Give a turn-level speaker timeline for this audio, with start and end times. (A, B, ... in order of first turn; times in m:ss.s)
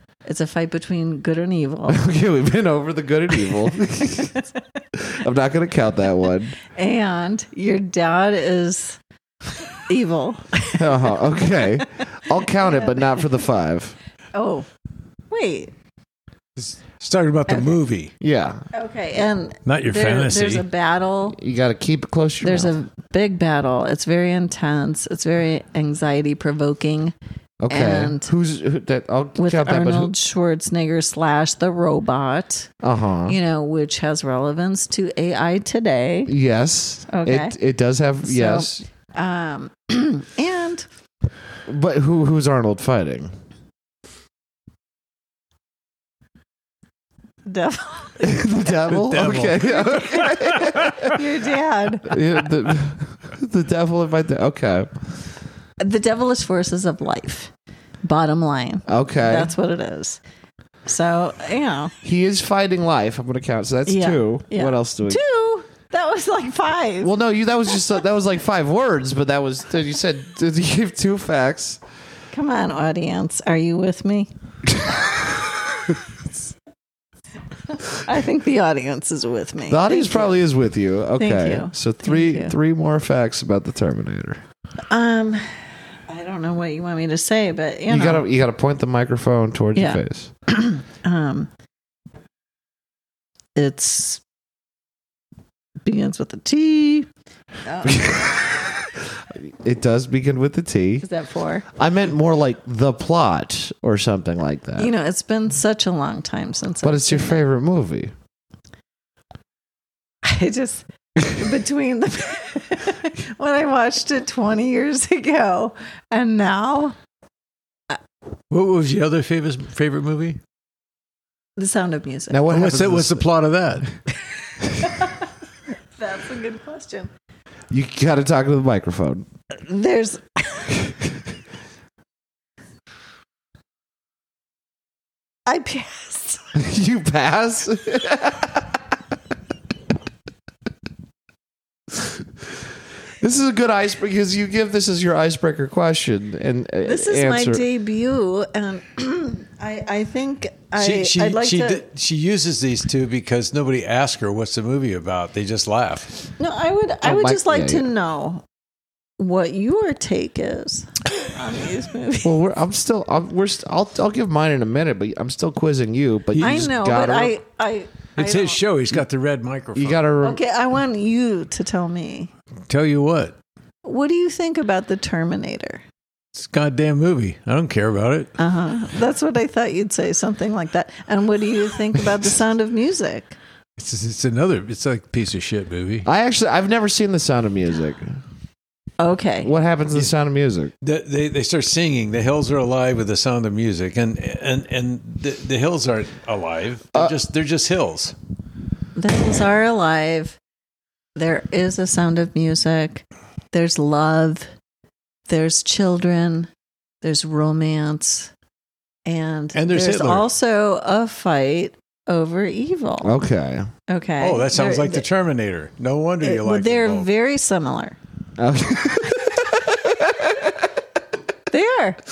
0:00.2-0:02.0 A
0:01.9-0:04.4 B
0:04.9-0:06.6 B
0:06.6-0:09.0 A
0:09.7-0:13.2 A
0:10.7-0:14.0 B
0:14.3-0:14.7 A
0:15.3-0:15.7 A
0:16.6-0:18.1 C
0:18.2-0:18.6 B
0:18.7-0:21.4 A
0:19.6-0:20.6 C
0:21.3-0:22.7 B
0:22.4-0:27.1 A
0:27.6-0:30.1 B
0:27.7-0:28.3 A
0:29.4-0:32.7 A
0:32.8-0:33.4 B
0:33.2-0:36.3 A
0:36.3-0:38.8 B
0:37.1-0:37.6 A
0:38.2-0:40.9 A
0:41.7-0:43.3 B
0:47.4-0:48.7 A
0:48.2-0:51.2 B
0:48.9-0:51.2 C
0:51.0-0:52.2 A
0:52.0-0:54.9 B
0:55.8-0:57.5 A
0:58.0-1:00.2 A
0:58.9-0:59.5 B
1:00.8-1:01.9 A
1:02.0-1:05.2 B
1:03.8-1:07.1 A
1:07.0-1:11.8 B
1:12.3-1:14.3 A
1:17.7-1:20.4 A
1:19.7-1:24.4 B
1:21.2-1:22.5 A
1:24.9-1:28.2 A
1:27.9-1:30.3 B
1:29.7-1:31.5 A
1:33.6-1:34.2 A
1:35.8-1:37.1 A
1:37.6-1:38.2 A
1:37.8-1:41.0 B
1:41.0-1:41.6 A
1:41.7-1:44.9 B
1:44.8-1:47.4 A
1:46.8-1:48.1 B
1:50.2-1:57.0 A
1:58.5-2:00.4 C
2:01.6-2:02.5 A
2:02.3-2:03.3 B
2:02.5-2:03.9 C
2:04.7-2:05.3 A
2:06.0-2:07.1 A
2:07.7-2:09.2 B
2:09.6-2:10.8 A
2:15.5-2:16.4 A
2:16.5-2:18.8 B
2:23.2-2:27.6 B
2:26.8-2:31.8 A
2:30.8-2:36.2 C
2:36.4-2:38.4 A
2:37.0-2:37.9 B
2:39.2-2:42.3 A
2:42.2-2:47.4 B
2:46.4-2:48.6 A
2:46.4-2:46.7 C
2:48.2-2:50.1 C
2:49.7-2:50.4 B
2:50.2-2:52.3 A
2:52.7-2:53.4 C
2:53.8-2:55.8 A
2:56.3-2:58.3 C
2:58.4-3:03.4 A
3:03.8-3:06.1 C
3:06.0-3:08.2 B
3:09.0-3:09.5 A
3:09.4-3:10.7 B
3:10.8-3:18.2 C
3:19.0-3:20.4 A
3:21.2-3:24.5 A
3:25.3-3:26.5 A
3:27.0-3:28.3 A
3:29.0-3:33.1 A
3:29.5-3:30.3 C
3:33.0-3:33.7 B
3:33.9-3:35.0 A
3:34.2-3:37.1 C
3:36.2-3:38.0 A
3:38.4-3:40.7 B
3:41.5-3:42.0 A